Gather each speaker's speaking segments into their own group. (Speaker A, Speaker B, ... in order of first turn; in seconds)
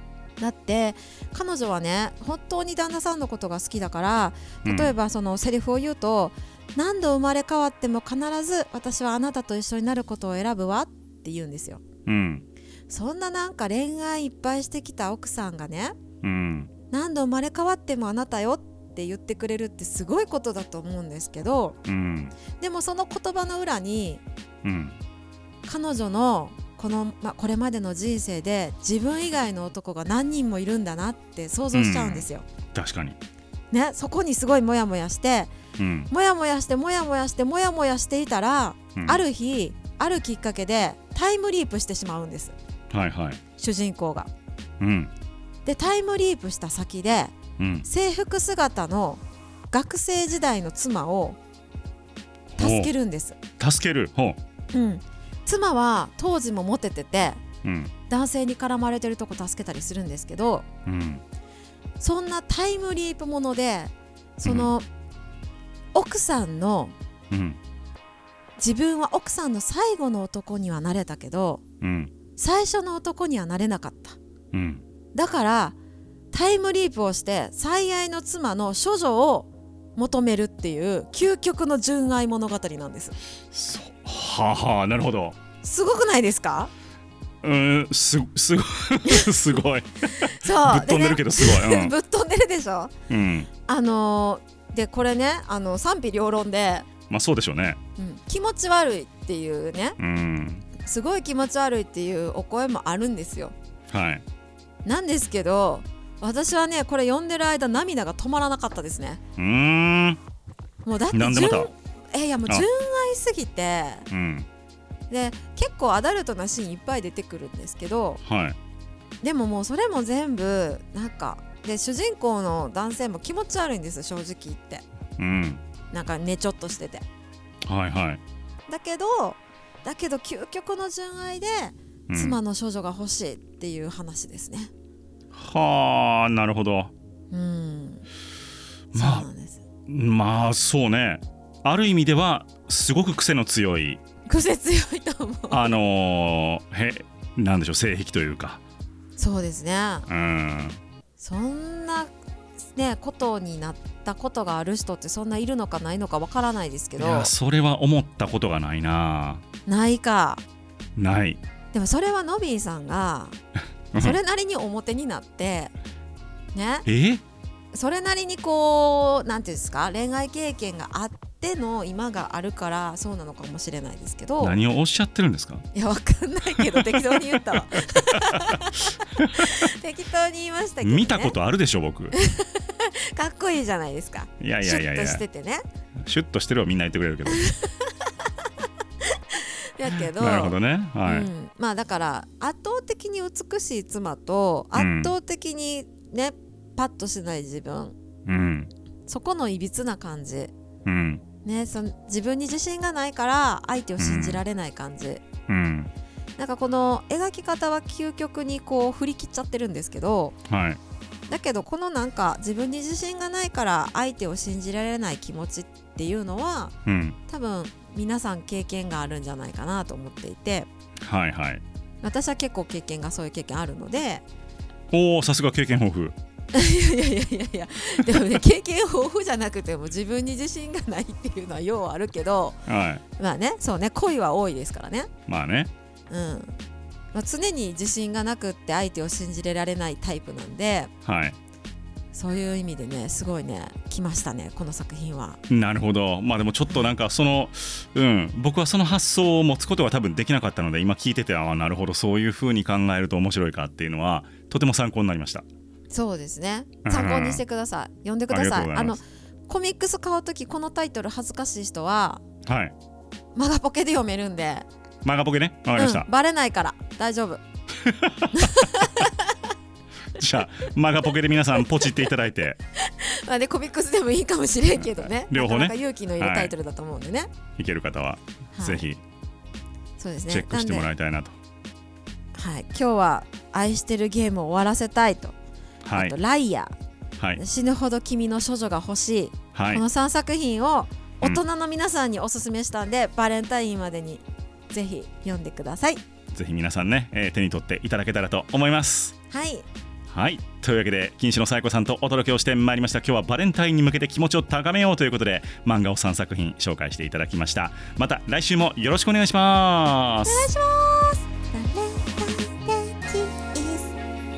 Speaker A: 0.4-11.8, 12.9-15.9, 16.9-21.8, 22.6-24.2, 25.6-32.5, 33.7-35.5, 36.1-42.5, 43.6-44.3, 45.6-51.4, 52.6-53.4, 54.7-57.4, 58.1-60.6, 62.0-64.8, 65.9-66.9, 68.6-71.6, 72.4-74.2, 75.1-75.8, 76.3-83.2, 85.6-86.7, 90.2-92.9, 93.7-96.9, 98.0-100.0, 100.8-103.5, 104.8-109.2, 110.8-114.1, 115.1-118.2, 119.2-124.8, 125.9-127.0, 128.7-134.7, 137.3-138.0, 138.9-139.6, 144.3-145.7, 149.2-150.1, 151.2-152.1, 152.7-157.3, 159.7-160.4, 161.7-163.4, 163.9-165.7, 166.5-166.8, 167.7-174.6, 175.7-181.3, 182.1-185.6, 187.2-187.9, 189.1-198.0, 199.1-200.5, 201.4-205.2, 206.4-210.4, 211.3-216.7, 217.3-220.7, 222.0-224.2, 226.5-232.6, 233.2-235.1, 236.1-236.6, 237.1-240.9, 242.1-245.4, 246.7-246.9, 255.9-262.2, 263.3-264.7, 265.7-267.4, 268.3-269.3, 272.8-277.3, 278.5-278.9, 280.0-280.9, 282.3-285.3, 285.9-286.7, 287.4-296.0, 299.3-299.7, 310.2-313.9
Speaker B: 4.6-4.9, 12.1-12.4, 16.2-16.7, 21.9-22.4, 24.6-24.9, 31.7-33.2, 35.8-36.1, 39.0-39.2, 42.9-43.4, 44.8-45.1, 47.6-47.9, 52.5-52.9, 53.6-54.4, 57.6-57.9, 60.9-61.2, 64.4-64.7, 67.3-67.6, 71.8-72.1, 74.5-74.8, 83.5-85.4, 87.4-91.9, 93.1-93.5, 97.1-97.8, 100.0-100.6, 103.9-104.2, 109.4-110.2, 111.1-111.7, 114.1-114.5, 118.2-118.6, 125.2-125.6, 127.7-128.2, 132.1-132.4, 135.3-136.9, 138.9-139.3, 139.9-144.0, 145.5-148.6, 150.1-150.8, 157.0-159.4, 161.0-161.4, 166.8-167.2, 174.4-175.6, 176.7-177.6, 178.1-178.5, 179.1-179.6, 180.8-182.1, 184.4-185.2, 186.0-187.4, 189.9-191.3, 194.7-195.1, 198.2-198.7, 200.8-201.2, 204.0-204.4, 205.5-205.9, 210.5-210.8, 216.8-217.2, 221.0-221.6, 224.9-226.1, 232.7-233.0, 235.3-235.7, 241.0-241.3, 245.5-255.4, 256.8-257.4, 258.3-259.0, 262.4-262.7, 265.0-266.1, 267.8-268.6, 270.1-272.6, 275.3-276.5, 277.6-279.0, 280.3-281.4, 285.8-286.1, 289.5-289.8, 296.3-299.1, 300.1-310.5